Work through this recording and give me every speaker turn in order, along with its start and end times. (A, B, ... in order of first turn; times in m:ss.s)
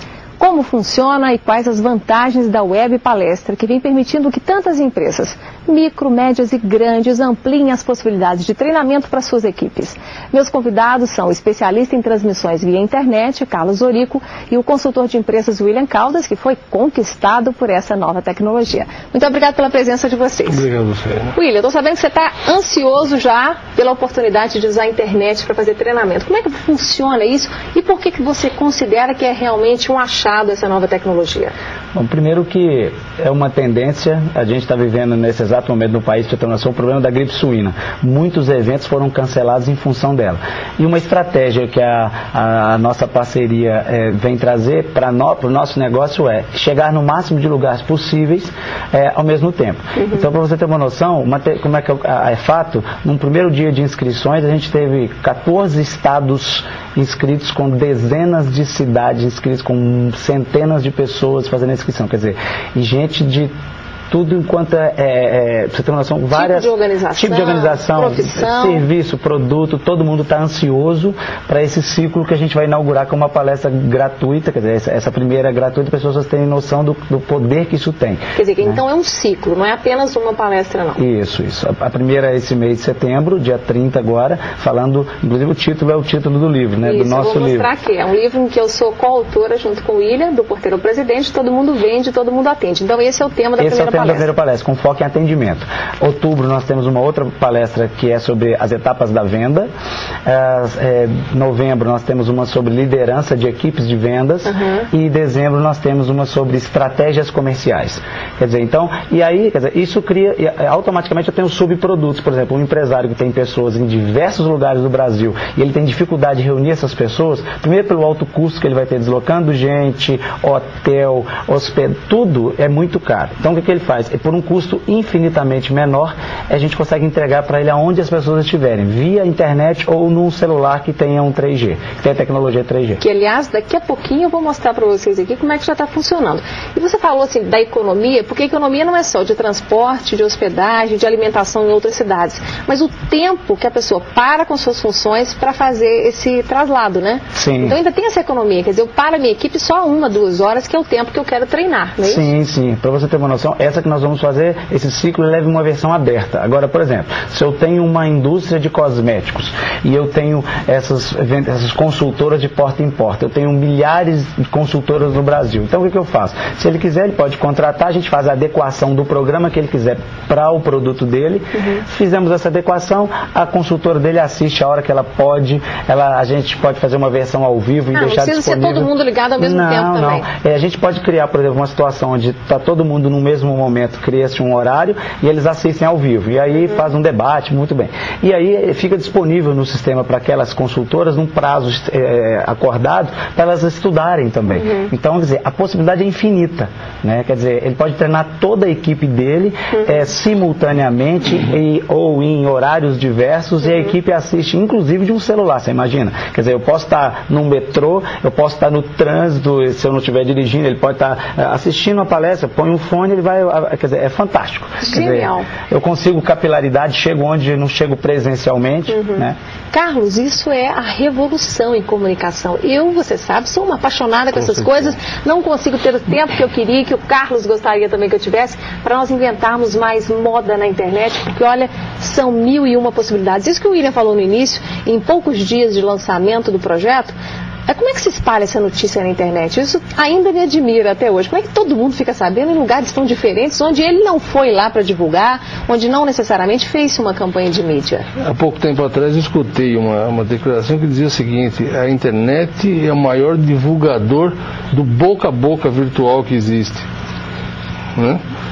0:00.4-0:20.7 A
0:20.5-0:21.4 B
0:21.3-0:31.6 A
0:32.0-1:03.5 C
1:04.1-1:18.8 C
1:06.3-1:08.8 A
1:18.4-1:21.0 A
1:21.0-1:27.7 C
1:26.8-1:34.3 A
1:33.6-1:39.7 C
1:40.3-2:13.0 C
1:44.5-1:44.9 A
2:13.0-2:32.3 A
2:27.3-2:27.8 C
2:32.0-3:39.4 C
2:57.9-3:00.3 A
3:34.8-3:35.5 A
3:38.9-3:57.2 A
3:57.7-4:08.0 A
4:08.2-4:16.9 B
4:18.0-4:18.2 B